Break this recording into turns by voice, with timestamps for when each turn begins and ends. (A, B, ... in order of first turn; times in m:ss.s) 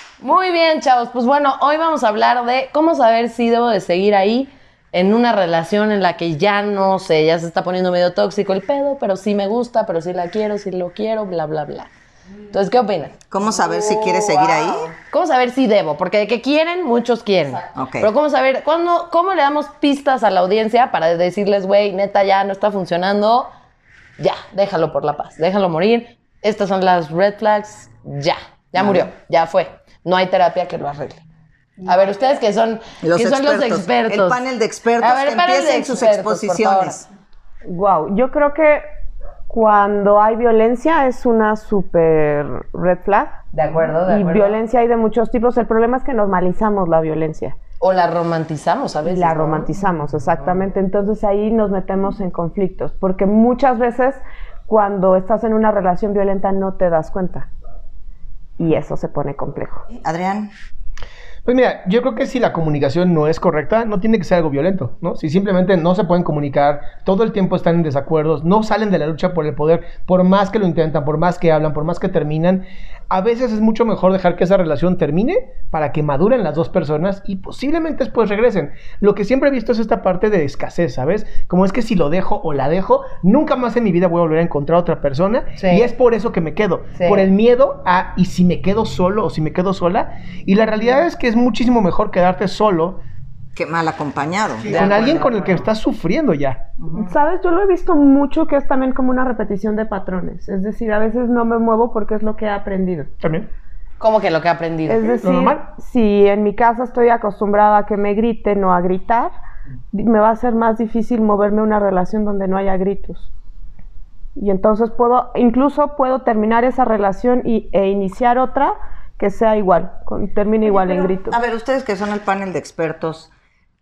0:00.2-0:11.9 A
0:12.5-0:23.5 A
0:13.3-0:14.9 B
0:17.7-0:18.1 B
0:24.2-0:31.2 A
0:28.8-0:29.1 B
0:31.8-0:34.4 A
0:33.0-0:37.0 B
0:35.0-0:37.0 A
0:37.7-0:38.8 C
0:39.5-0:43.4 C
0:43.5-0:44.6 A
0:44.0-0:47.6 C
0:47.8-0:49.7 A
0:49.1-0:57.5 C
0:58.6-0:59.8 C
0:59.9-1:00.5 B
1:01.4-1:33.0 D
1:25.6-1:25.9 A
1:26.9-1:27.2 A
1:33.6-1:35.3 B
1:34.7-1:35.6 A
1:34.7-1:36.6 D
1:36.8-1:37.1 B
1:36.9-1:43.1 C
1:43.2-1:43.5 D
1:44.0-1:45.2 A
1:44.8-1:49.3 C
1:45.2-1:45.6 D
1:49.9-1:53.3 C
1:54.4-2:01.4 C
2:00.6-2:03.3 B